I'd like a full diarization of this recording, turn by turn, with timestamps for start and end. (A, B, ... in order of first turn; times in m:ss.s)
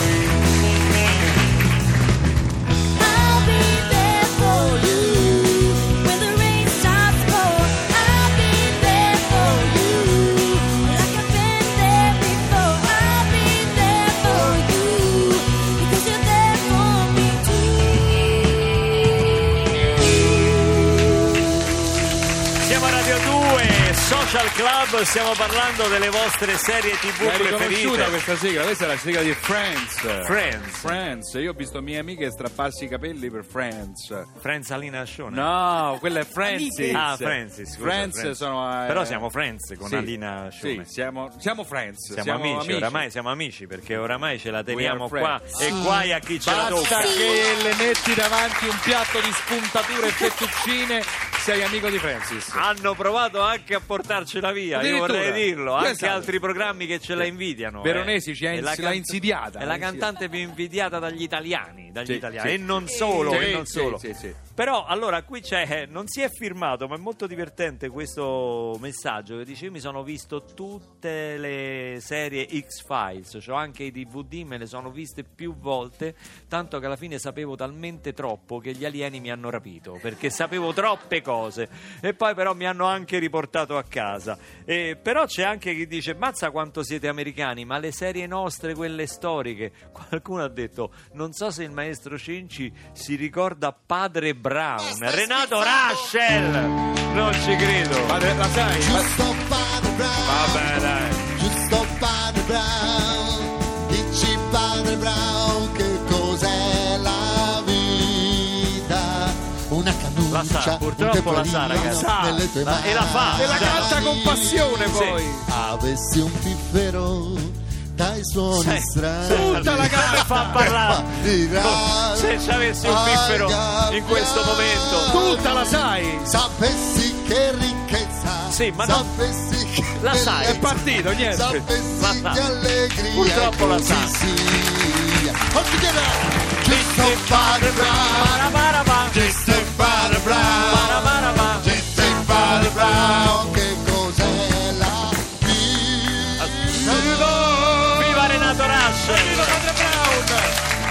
0:02.9-0:18.5 A
0:22.6-0:28.2 B
0:27.2-0:34.3 C
0:30.2-0:31.0 B
0:34.4-0:35.5 B
0:35.3-0:39.3 C
0:36.9-0:40.9 B
0:39.8-0:43.0 C
0:42.1-0:47.3 B
0:44.7-0:52.6 C
0:52.5-1:04.0 B
0:54.7-0:56.3 C
0:57.1-1:00.1 C
1:02.0-1:04.4 C
1:04.5-1:38.2 B
1:35.0-1:36.1 D
1:38.0-1:39.1 C
1:38.8-1:54.8 D
1:40.2-1:41.2 C
1:50.3-1:52.1 B
1:51.8-1:52.5 C
1:52.6-1:54.0 B
1:53.3-1:55.5 C
1:54.8-1:55.2 B
1:55.5-2:18.5 D
1:58.5-2:05.1 B
1:59.2-2:00.7 C
2:05.1-2:06.4 C
2:08.5-2:09.1 B
2:10.0-2:10.8 B
2:10.4-2:11.6 C
2:11.9-2:12.4 B
2:13.1-2:14.2 B
2:16.7-2:21.8 B
2:19.1-2:28.1 D
2:26.6-2:30.6 C
2:26.8-2:27.1 B
2:27.9-2:29.6 B